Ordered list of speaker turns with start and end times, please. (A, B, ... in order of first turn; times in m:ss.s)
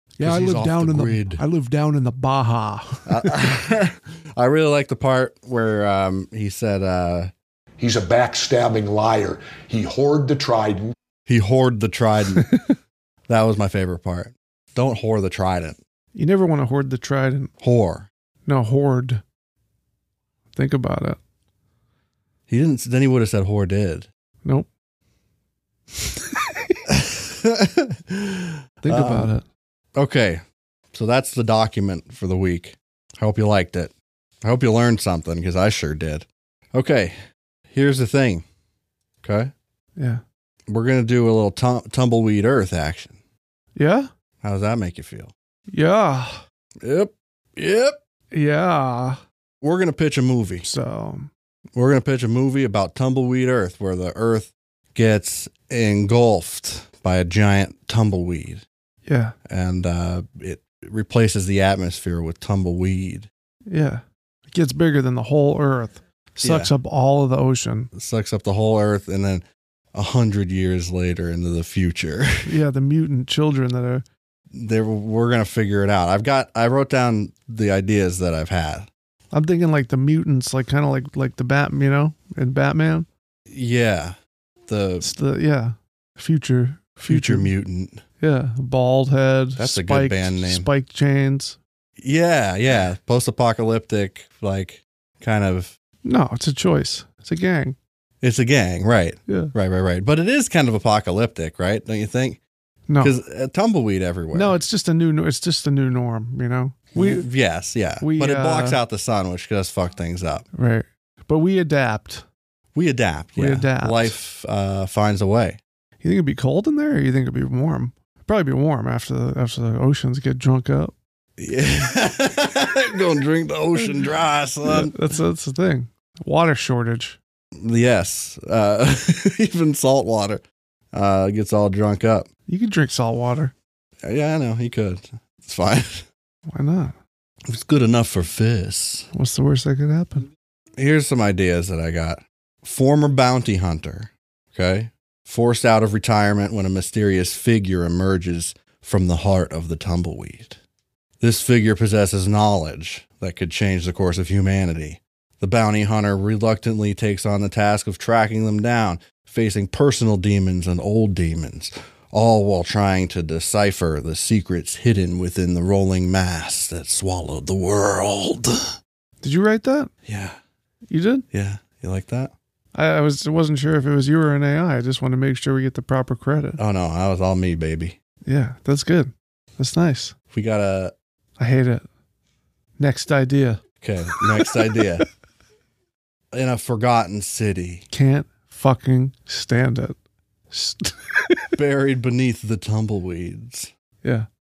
0:00.2-0:03.3 A
0:00.2-0:01.4 B
0:03.1-0:07.3 B
0:07.8-0:11.0 C
0:11.3-0:12.5 B
0:13.3-0:15.8 B
0:16.1-0:17.5 A
0:17.6-0:18.1 B
0:18.5-0:19.2 A
0:20.6-0:21.2 A
0:22.5-0:24.1 B
0:26.1-0:26.4 A
0:26.9-0:29.3 B
0:28.8-0:29.4 A
0:30.0-0:37.2 B
0:37.7-0:38.4 B
0:39.2-0:39.5 B
0:40.0-0:40.2 A
0:40.7-0:43.2 B
0:43.8-0:44.1 A
0:44.4-0:45.3 B
0:45.7-0:46.4 A
0:46.8-0:48.0 B
0:48.3-0:49.2 A
0:49.6-0:50.7 B
0:50.6-0:51.3 A
0:51.7-0:58.6 B
0:59.1-0:59.4 A
0:59.5-1:03.3 B
1:03.7-1:07.9 A
1:06.4-1:06.7 B
1:07.9-1:12.5 B
1:12.4-1:14.0 A
1:14.5-1:18.9 B
1:19.3-1:23.1 A
1:23.5-1:24.2 B
1:24.7-1:25.1 B
1:25.0-1:27.5 A
1:27.1-1:28.0 B
1:28.2-1:31.6 A
1:29.6-1:30.7 B
1:32.0-1:35.8 B
1:36.0-1:37.8 A
1:38.2-1:42.4 B
1:42.9-1:43.2 A
1:43.0-1:44.6 B
1:44.3-1:47.3 A
1:46.9-1:50.4 B
1:48.0-1:48.8 A
1:50.5-1:52.3 A
1:52.7-1:55.6 B
1:53.4-1:54.2 A
1:56.0-2:00.9 A
2:01.4-2:05.0 B
2:04.6-2:07.2 A
2:07.6-2:12.3 B
2:12.5-2:13.5 A
2:14.0-2:16.1 B
2:16.5-2:17.0 A
2:17.5-2:19.1 B
2:19.1-2:20.3 A
2:20.8-2:30.6 B
2:31.2-2:48.8 B
2:49.2-2:49.9 A
2:50.0-2:50.4 B
2:50.9-2:51.3 A
2:51.3-2:52.3 B
2:52.7-2:56.6 A
2:56.6-2:58.0 B
2:58.3-3:00.1 A
3:00.3-3:00.9 B
3:01.4-3:01.8 A
3:02.8-3:03.6 A
3:03.8-3:05.1 B
3:06.3-3:07.8 B
3:07.9-3:10.0 A
3:10.5-3:11.5 A
3:11.6-3:13.7 B